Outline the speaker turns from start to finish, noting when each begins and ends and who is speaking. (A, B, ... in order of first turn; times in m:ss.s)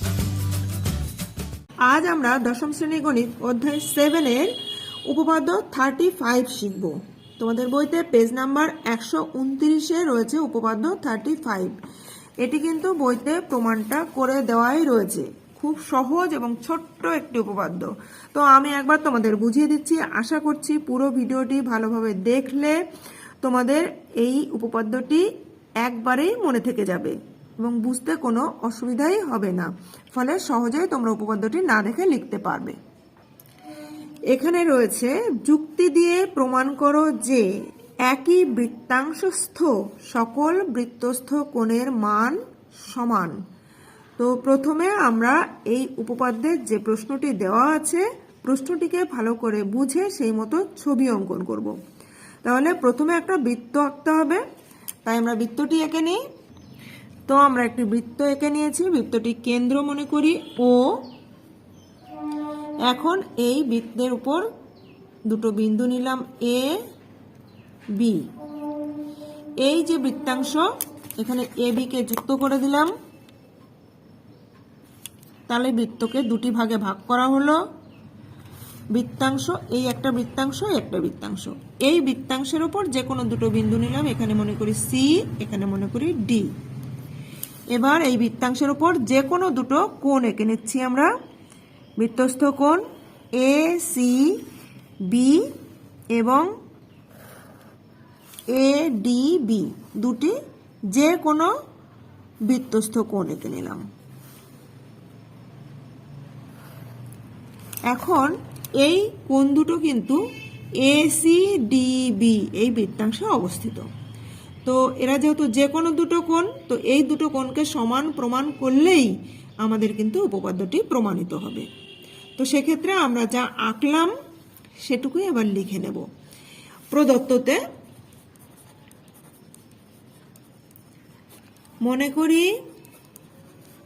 0:01.8-0:04.5 A
0:05.1-0:11.8 A
0:12.4-0:22.8 A
0:23.4-0:25.3 A
0:25.8-0:32.8 A
0:34.3-0:37.5 A
0:38.1-0:42.4 A
0:42.9-0:43.4 A
0:44.2-0:51.8 A
0:52.4-0:54.4 A
0:55.0-0:56.2 A
0:57.3-1:01.0 A
1:02.9-1:04.5 A
1:05.3-1:06.8 A
1:08.0-1:08.3 A
1:09.6-1:10.7 A
1:11.2-1:12.9 A
1:15.5-1:17.6 A
1:18.9-1:26.5 A
1:27.7-1:31.1 A
1:32.0-1:32.8 A
1:33.4-1:34.4 A
1:35.1-1:35.5 A
1:36.1-1:36.5 A
1:38.5-1:40.4 A
1:40.9-1:41.5 A
1:42.5-1:43.8 A
1:47.9-1:50.2 A
1:50.8-1:53.9 A
1:54.6-2:01.7 A
2:02.4-2:04.1 A
2:04.8-2:06.1 A
2:06.9-2:07.6 A
2:11.8-2:12.5 A